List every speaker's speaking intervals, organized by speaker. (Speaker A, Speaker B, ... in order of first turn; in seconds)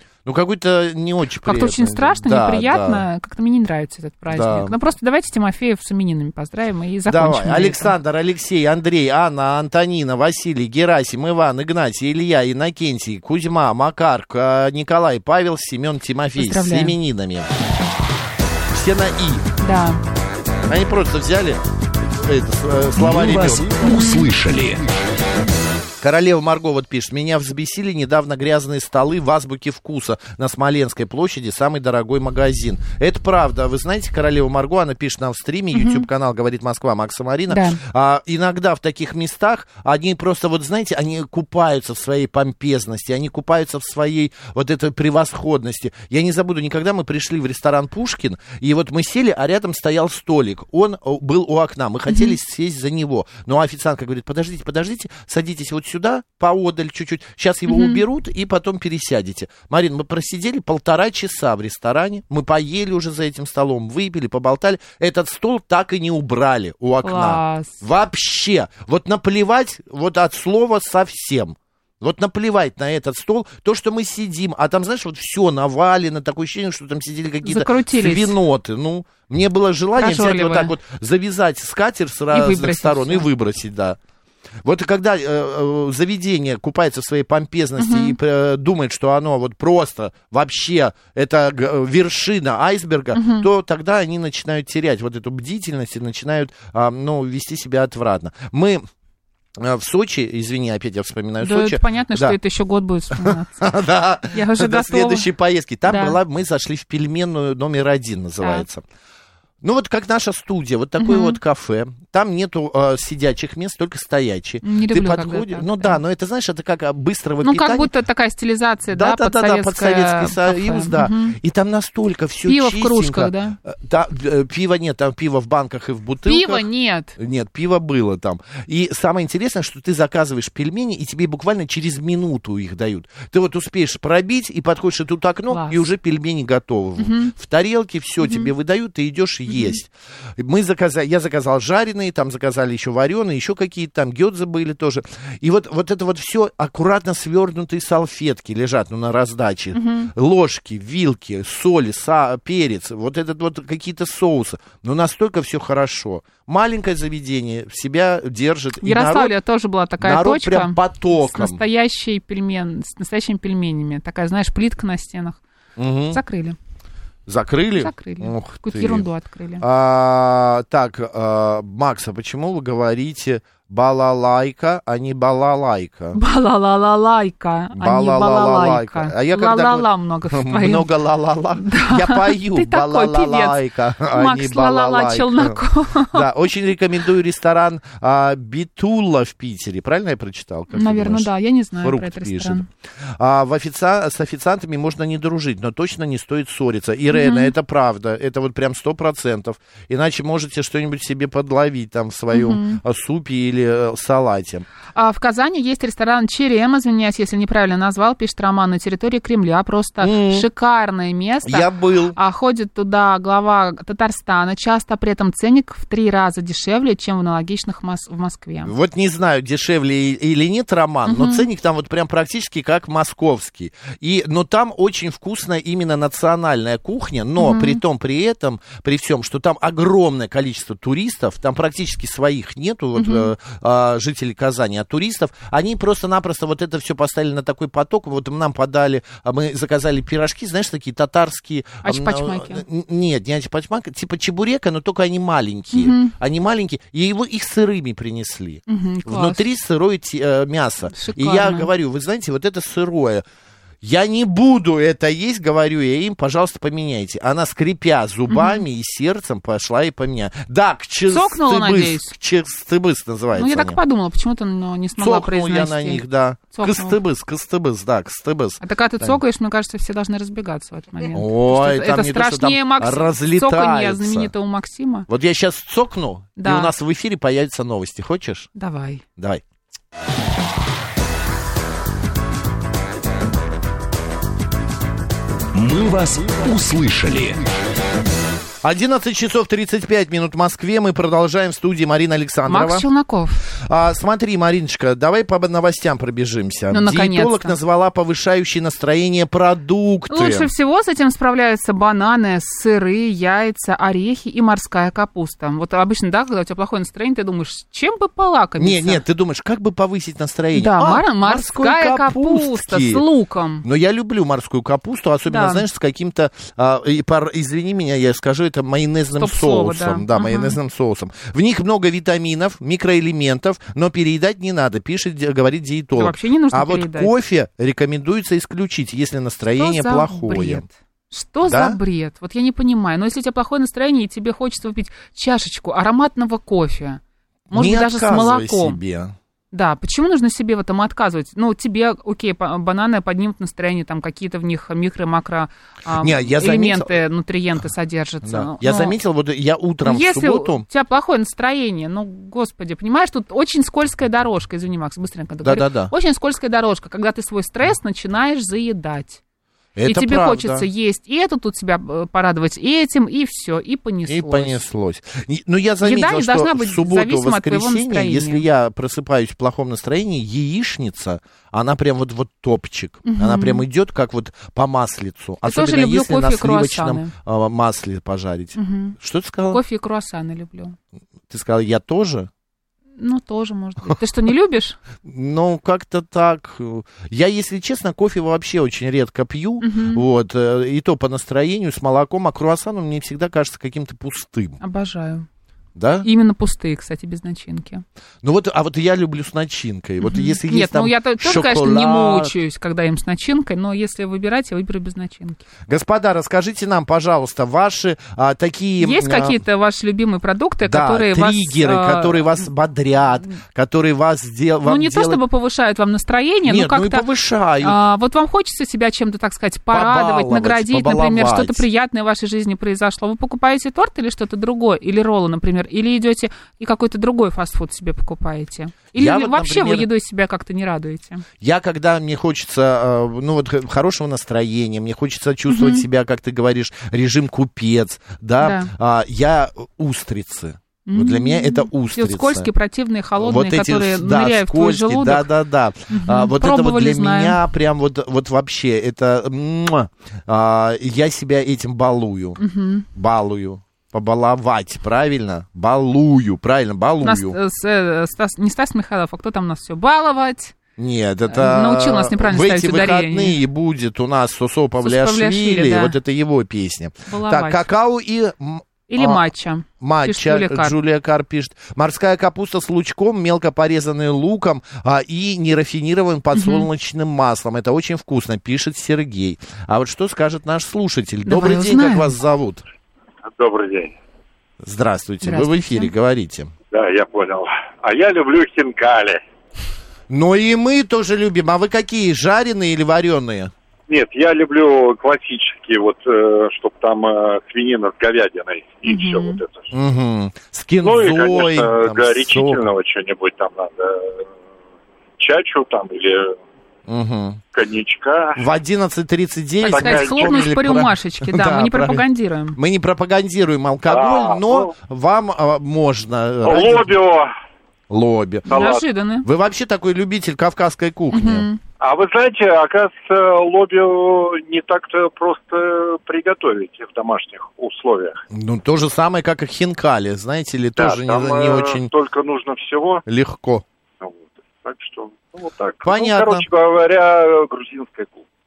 Speaker A: 0.3-3.0, 4.3-4.7, 7.1-17.5, 18.7-19.4, 20.7-21.6, 22.2-23.7, 26.0-84.0, 84.6-98.8, 99.6-102.4, 103.2-108.8, 109.6-117.9, 118.9-126.7, 127.2-159.3, 160.0-161.6, 165.8-166.2, 167.3-169.1, 169.6-176.2, 177.7-191.3, 191.8-204.7, 210.0-210.5, 211.5-212.2, 218.6-253.2, 253.8-263.8, 265.0-269.2, 271.1-274.3, 275.1-278.5, 279.2-279.4, 288.6-292.9, 293.5-300.5, 308.6-313.1, 313.6-330.7, 331.5-331.8, 337.5-339.1, 346.0-346.9, 348.2-350.6, 355.4-355.9, 359.8-360.7, 364.1-379.6, 381.3-382.3, 385.1-394.6, 395.8-396.1, 398.2-402.3, 405.7-409.4, 410.6-415.2, 416.5-417.8, 419.7-421.6, 428.9-429.9, 431.4-442.5, 443.2-452.4, 452.9-457.4, 460.8-469.2, 469.8-482.6, 484.6-486.5, 490.1-493.5, 499.7-502.6, 506.9-507.4, 508.4-512.0, 512.6-516.9, 517.9-518.6, 519.2-521.5, 528.3-531.9, 533.1-533.6, 535.8-536.5
Speaker B: 1.4-7.9, 16.4-17.0, 19.6-20.0, 23.8-24.3, 35.7-36.0, 37.5-37.8, 52.1-52.4, 57.7-58.0, 67.0-67.8, 77.4-78.4, 80.0-80.7, 82.3-83.3, 87.8-88.2, 93.1-93.5, 101.4-103.7, 104.3-105.3, 105.9-106.2, 111.0-111.4, 114.6-116.0, 117.4-121.4, 122.5-123.6, 126.2-127.2, 135.5-135.9, 137.0-137.3, 138.2-138.5, 139.5-139.8, 149.7-150.1, 158.8-165.4, 166.1-166.6, 167.8-169.6, 176.1-180.9, 181.6-183.6, 184.1-186.3, 190.7-192.7, 197.1-197.5, 202.3-202.8, 204.9-218.7, 221.1-221.5, 227.4-227.8, 233.0-233.3, 241.8-242.6, 245.7-246.1, 248.7-249.4, 250.9-251.7, 258.3-258.6, 261.1-262.1, 263.4-267.0, 268.6-275.1, 276.4-276.7, 278.6-279.0, 292.5-293.4, 296.7-297.6, 300.1-309.0, 310.5-313.6, 315.3-315.6, 319.2-320.6, 325.9-327.1, 329.6-338.8, 339.5-349.0, 349.8-359.2, 359.8-364.6, 365.8-368.4, 373.1-373.6, 375.5-377.1, 378.6-379.0, 379.5-380.8, 383.0-384.8, 389.6-390.0, 394.6-395.3, 396.0-397.8, 400.0-405.4, 408.8-412.4, 414.7-417.1, 417.6-431.2, 435.5-435.9, 438.4-438.7, 440.9-445.3, 445.9-447.4, 452.4-452.9, 457.0-460.6, 461.3-463.4, 464.8-466.0, 467.1-467.7, 468.9-470.8, 476.3-476.7, 481.2-482.1, 485.2-485.9, 498.8-499.4, 509.6-512.6, 518.5-519.3, 521.1-521.6
Speaker C: 23.0-24.9, 285.5-287.4
Speaker D: 483.3-483.9, 486.7-489.2, 493.9-499.7, 500.8-504.2, 505.2-506.4, 507.5-508.4, 509.7-510.5, 513.9-514.7, 516.4-517.3, 518.5-518.8, 521.8-528.2, 530.8-533.0, 534.0-538.2